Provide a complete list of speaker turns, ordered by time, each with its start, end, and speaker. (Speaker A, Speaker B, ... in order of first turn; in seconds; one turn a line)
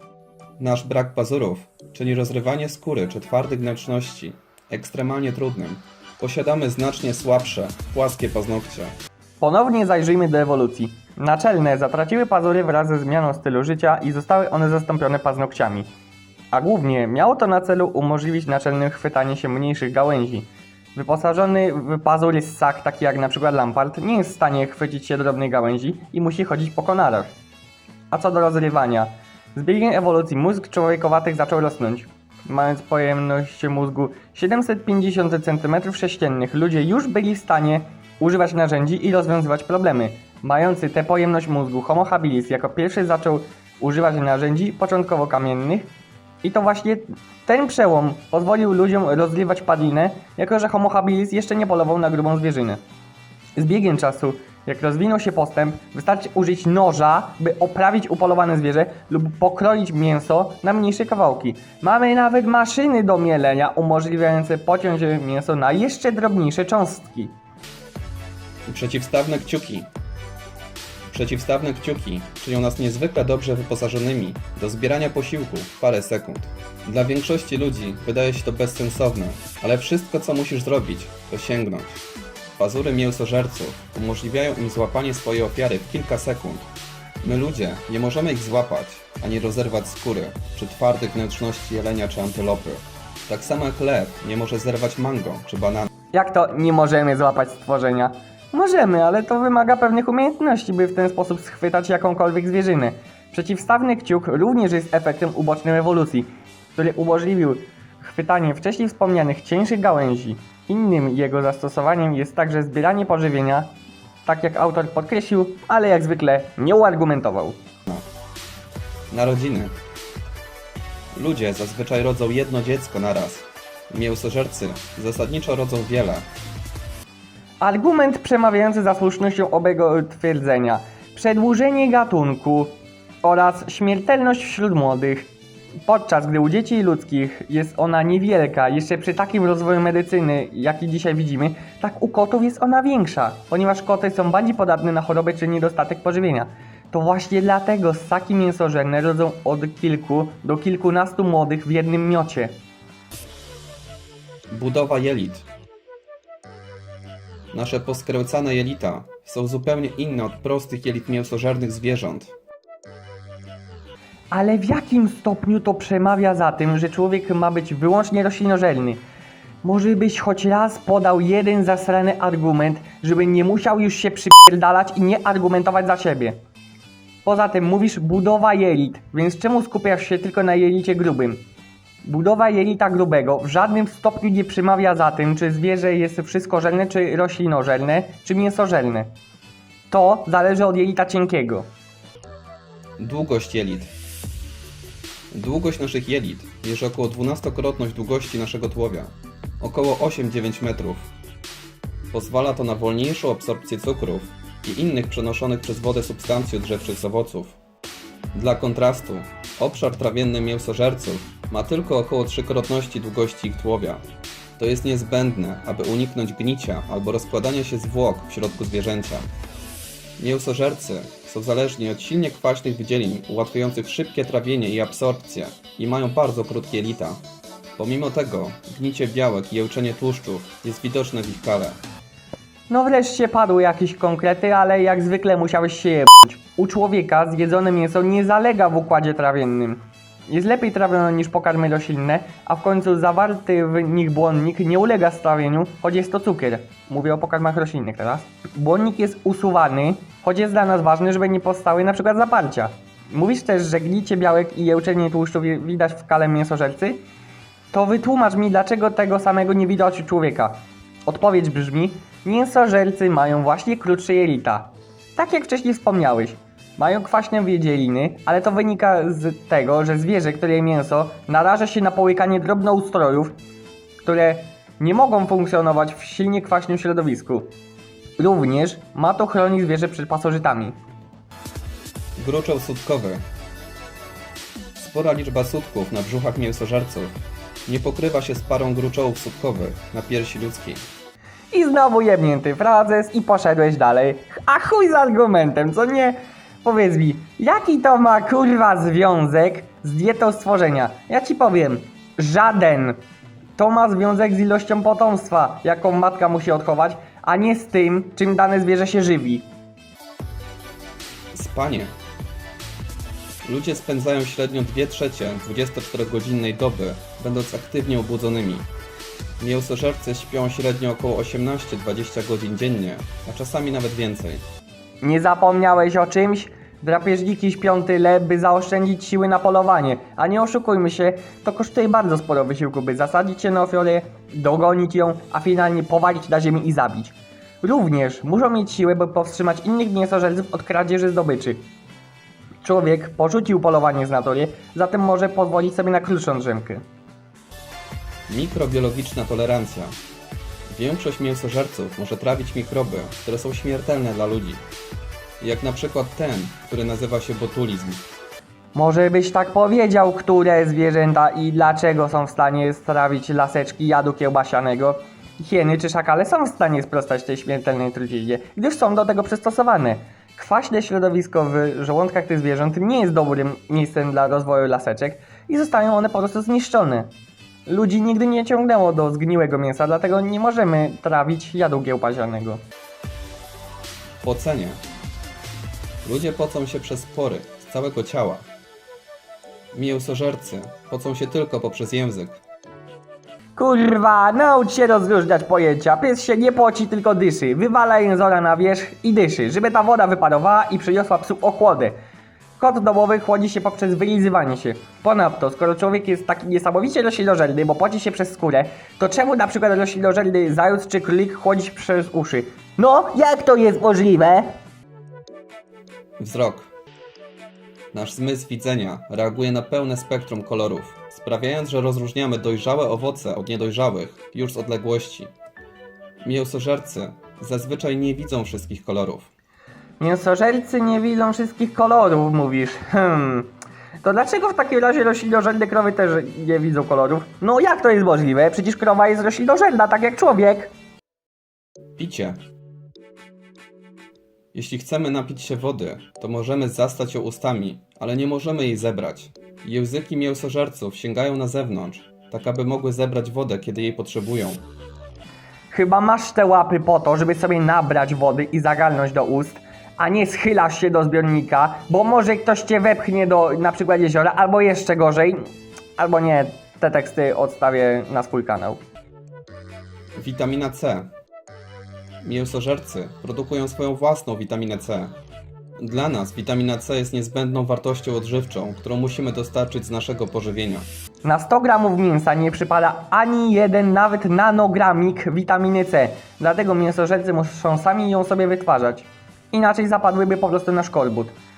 Speaker A: 0.6-8.9
Speaker B: 9.4-15.9
Speaker B: 16.5-27.3
Speaker B: 28.1-45.9
Speaker B: 46.4-52.8
Speaker B: 53.6-67.3
Speaker A: 68.7-69.9
Speaker A: 71.1-82.0
Speaker A: 82.6-86.7
Speaker A: 87.2-95.9
Speaker B: 96.1-113.8
Speaker B: 114.3-117.6
Speaker A: 119.1-119.8
Speaker A: 121.1-126.3
Speaker B: 127.6-135.3
Speaker B: 135.9-152.6
Speaker A: 154.5-155.5
Speaker A: 157.5-162.3
Speaker B: 164.3-169.0
Speaker B: 169.6-176.4
Speaker B: 177.2-181.4
Speaker B: 182.0-189.1
Speaker B: 189.9-191.7
Speaker A: 193.0-193.9
Speaker A: 195.3-201.1
Speaker A: 202.1-207.6
Speaker A: 208.3-214.0
Speaker A: 214.6-219.3
Speaker A: 220.2-227.2
Speaker A: 227.8-231.8
Speaker B: 232.7-257.0
Speaker B: 257.7-273.3
Speaker B: 274.0-277.5
Speaker B: 278.2-280.8
Speaker A: 282.2-283.2
Speaker A: 284.8-287.1
Speaker A: 287.7-290.8
Speaker B: 291.5-303.0
Speaker B: 303.6-309.5
Speaker A: 311.3-311.9
Speaker A: 313.4-318.7
Speaker A: 319.4-324.4
Speaker B: 325.0-341.7
Speaker B: 342.6-346.8
Speaker A: 348.3-350.0
Speaker A: 350.7-354.6
Speaker A: 355.4-358.1
Speaker B: 358.7-377.1
Speaker B: 377.7-382.6
Speaker A: 384.2-384.8
Speaker A: 386.0-388.5
Speaker A: 389.7-392.4
Speaker B: 393.6-402.0
Speaker B: 402.6-414.6
Speaker A: 416.2-416.7
Speaker A: 417.9-425.3
Speaker A: 426.2-429.3
Speaker B: 430.0-433.5
Speaker B: 434.0-440.7
Speaker A: 442.0-442.4
Speaker A: 444.5-454.6
Speaker B: 455.7-465.4
Speaker B: 466.0-468.8
Speaker A: 470.2-471.1
Speaker A: 472.2-475.2
Speaker A: 475.8-480.9
Speaker B: 481.2-491.4